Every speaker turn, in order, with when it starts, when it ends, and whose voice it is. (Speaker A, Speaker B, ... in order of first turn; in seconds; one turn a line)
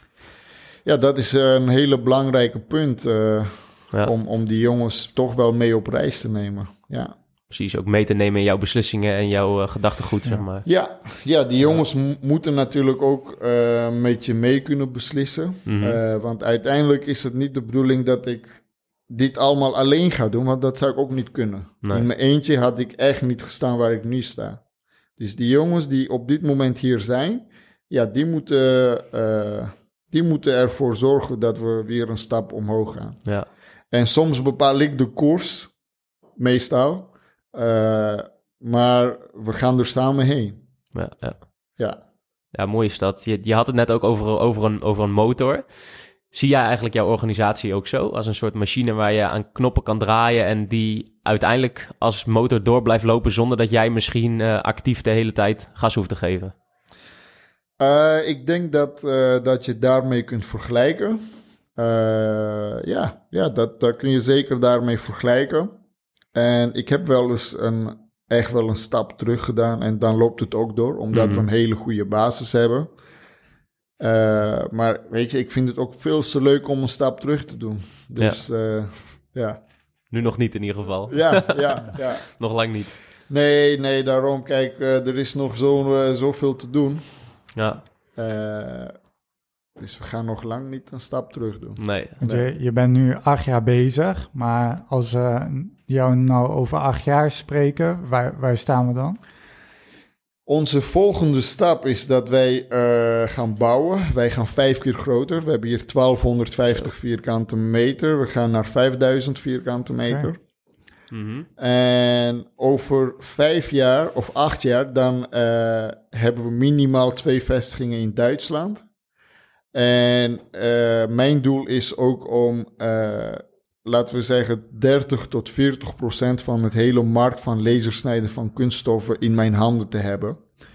Speaker A: 0.8-7.2
Speaker B: 7.5-10.7
Speaker A: 10.7-18.6
Speaker B: 15.7-16.0
Speaker A: 19.1-24.6
Speaker A: 25.2-33.2
Speaker A: 33.9-35.7
Speaker A: 36.4-40.6
Speaker B: 40.9-41.5
Speaker B: 42.5-56.5
Speaker A: 57.8-61.2
Speaker A: 61.8-65.7
Speaker A: 66.3-72.9
Speaker B: 71.1-71.5
Speaker A: 74.0-79.6
Speaker B: 80.1-82.9
Speaker A: 81.1-82.3
Speaker A: 83.3-87.0
Speaker B: 87.6-87.8
Speaker A: 88.2-89.0
Speaker A: 89.8-92.5
Speaker B: 91.8-92.2
Speaker C: 92.2-99.2
Speaker A: 100.5-110.4
Speaker B: 111.1-111.5
Speaker A: 111.6-118.9
Speaker A: 119.7-130.4